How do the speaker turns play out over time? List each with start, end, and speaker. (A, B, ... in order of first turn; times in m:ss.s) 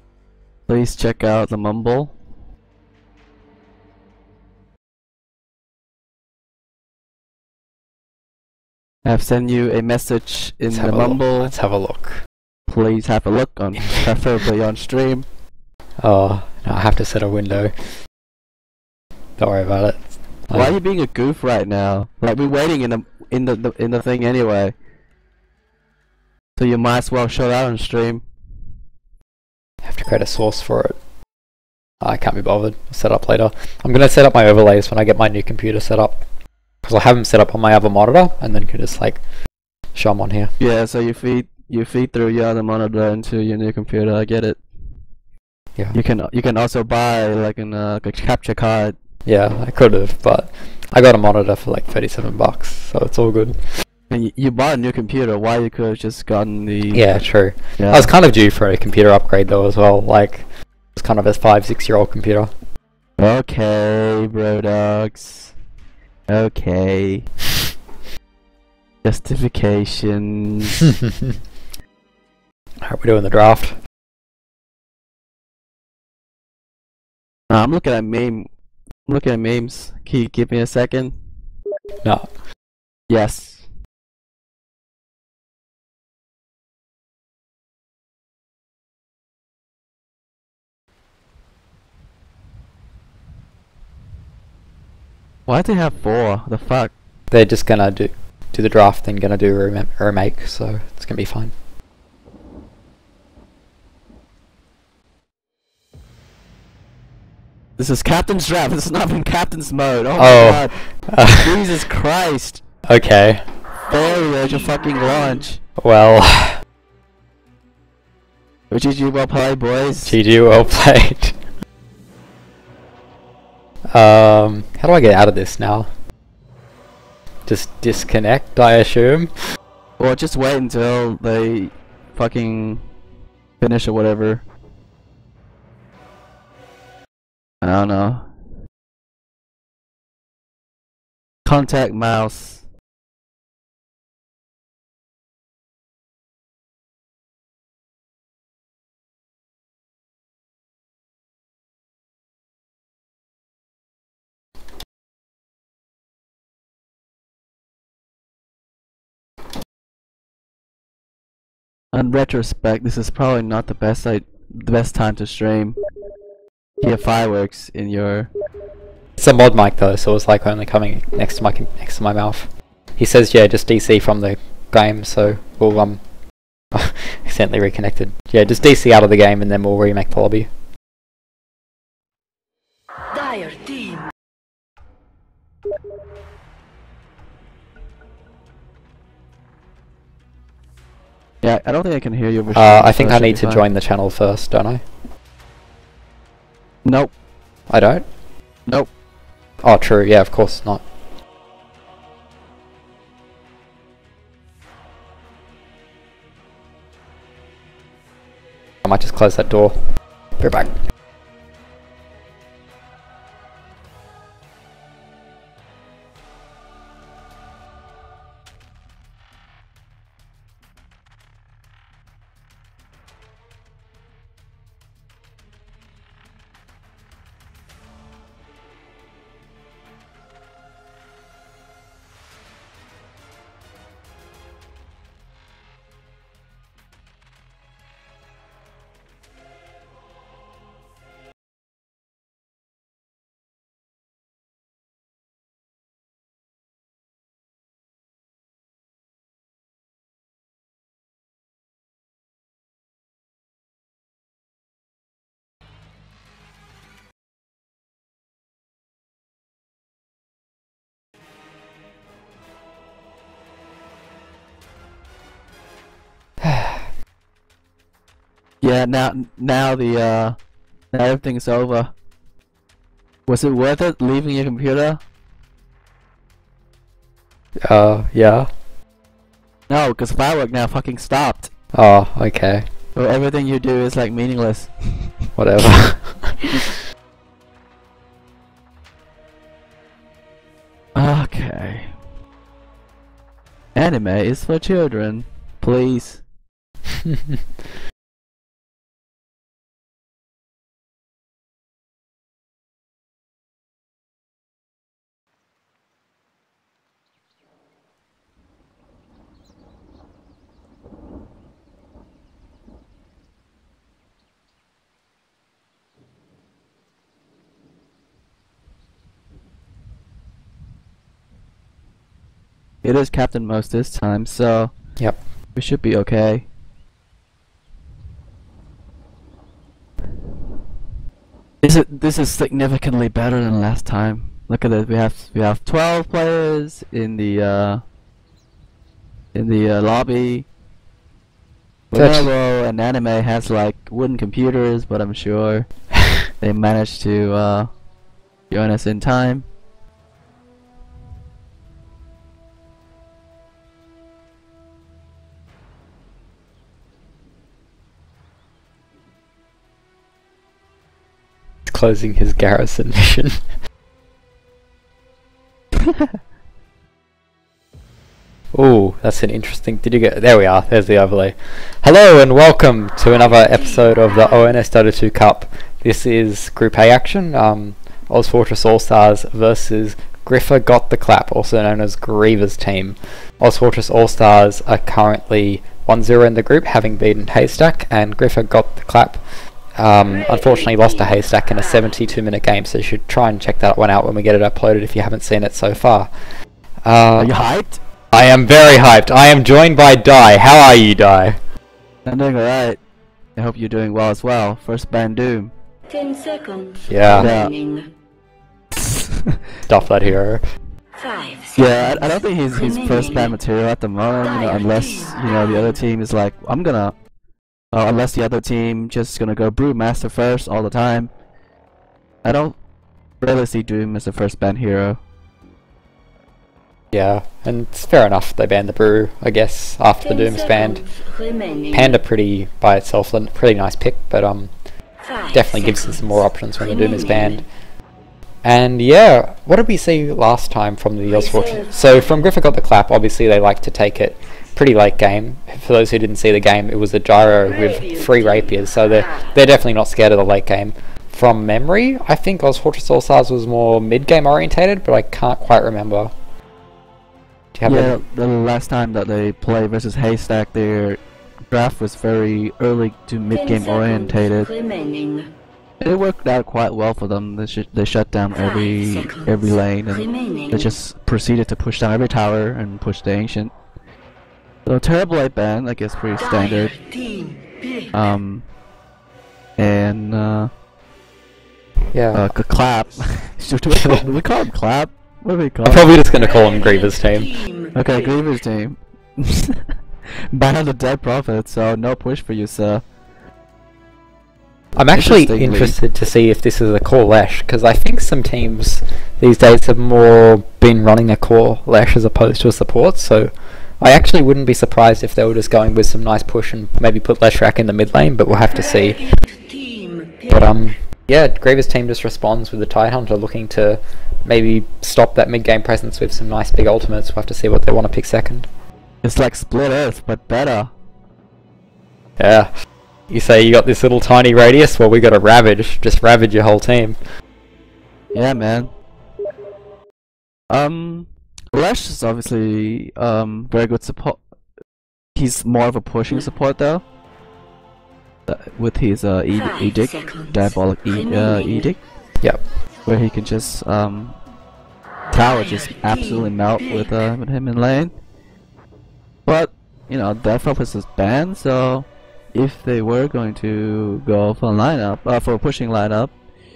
0:00.7-0:02.1 A
0:09.0-0:11.5 A
0:10.7-0:12.2 B
0:12.7-0:15.3 A
0:16.0-0:17.7 B
0:19.4-0:20.7 B
0:20.5-0:24.7 A
0:26.6-0:28.2 A
0:29.8-0:31.0 B
0:32.0-0:36.2 B
0:36.8-0:39.2 B
0:39.9-0:40.5 B
0:40.6-0:44.6 A
0:45.9-0:49.0 A
0:49.2-0:53.6 B
0:54.1-0:57.2 A
0:56.9-1:00.4 B
0:57.8-0:58.1 A
1:01.0-1:02.5 B
1:03.2-1:05.5 A
1:06.3-1:07.3 A
1:09.0-1:10.8 A
1:10.9-1:11.4 B
1:12.8-1:13.7 B
1:17.5-1:18.5 A
1:19.1-1:21.2 A
1:22.0-1:22.3 B
1:23.1-1:23.6 A
1:35.5-1:36.9 A
1:37.3-1:41.5 B
1:47.8-1:50.8 A
1:50.2-1:51.6 B
1:51.3-1:52.6 A
1:52.9-1:53.4 B
1:53.9-1:55.6 A
1:53.9-1:55.4 C
1:55.8-1:56.6 B
1:58.7-2:00.2 A
2:00.0-2:01.4 B
2:03.9-2:05.9 B
2:07.5-2:09.3 B
2:10.0-2:12.8 A
2:13.6-2:14.4 A
2:17.6-2:18.3 A
2:21.4-2:22.6 A
2:41.9-2:45.8 A
2:46.8-2:48.3 A
2:49.2-2:56.0 B
2:56.7-3:00.5 B
3:03.1-3:04.0 C
3:11.4-3:13.6 A
3:12.5-3:14.8 B
3:16.8-3:17.1 A
3:17.7-3:18.0 B
3:19.6-3:20.8 B
3:28.8-3:29.8 B
3:30.4-3:30.8 B
4:26.4-4:26.8 B
4:28.6-4:30.4 A
4:30.9-4:31.9 A
4:33.3-4:35.0 A
4:37.6-4:38.5 B
4:39.7-4:41.5 A
4:41.7-4:42.6 B
4:42.9-4:45.1 A
4:45.4-4:46.5 B
4:50.9-4:51.9 A
4:53.7-4:56.2 A
4:57.0-4:57.4 B
5:22.8-5:24.7 A
5:25.5-5:26.5 A
5:31.6-5:37.8 A
5:39.3-5:40.5 A
5:41.9-5:45.7 A
5:41.9-5:42.3 B
5:46.4-5:47.7 A
5:48.5-5:49.5 A
6:01.7-6:03.4 B
6:08.5-6:29.2 B
6:13.1-6:14.5 C
6:29.8-6:36.1 B
6:30.1-6:31.9 C
6:36.8-6:37.4 B
6:37.2-6:37.8 A
6:38.1-6:41.4 B
6:42.0-6:42.8 A
6:43.4-6:45.5 A
6:45.9-6:47.9 C
6:46.9-6:47.3 B
6:47.1-6:47.5 A
6:48.8-6:49.4 A
6:49.7-6:50.4 B
6:51.0-6:53.4 C
6:51.6-6:56.9 A
6:54.2-6:55.8 C
6:57.7-7:01.1 A
7:02.2-7:02.6 A
7:03.2-7:05.0 A
7:06.9-7:10.8 B
7:10.0-7:12.0 C
7:11.7-7:14.5 B
7:15.0-7:17.4 C
7:15.3-7:17.4 B
7:18.4-7:36.1 B
7:21.1-7:22.1 C
7:27.4-7:29.4 C
7:37.5-7:38.0 B
7:37.6-7:41.0 A
7:41.5-7:44.5 A
7:43.3-7:45.3 C
7:45.8-7:53.5 A
7:48.3-7:49.3 C
7:49.9-7:50.7 C
7:54.6-7:56.7 A
7:56.2-7:58.0 C
7:57.9-7:58.4 A
7:59.6-8:00.5 A
8:01.9-8:02.2 B
8:02.1-8:05.9 A
8:03.7-8:04.0 B
8:05.6-8:07.3 B
8:06.1-8:08.2 C
8:07.7-8:09.6 A
8:10.3-8:12.8 A
8:14.7-8:29.0 B
8:14.9-8:15.8 A
8:28.4-8:30.7 C
8:30.3-8:38.5 B
8:39.0-8:40.7 A
8:42.2-8:42.5 B
8:43.1-8:47.0 B
8:48.1-8:48.7 A
8:50.5-8:54.2 A
8:55.2-8:56.8 A
8:58.3-9:01.8 A
8:59.3-9:01.7 C
9:02.8-9:04.2 A
9:05.1-9:07.9 A
9:05.1-9:06.9 C
9:09.2-9:16.1 A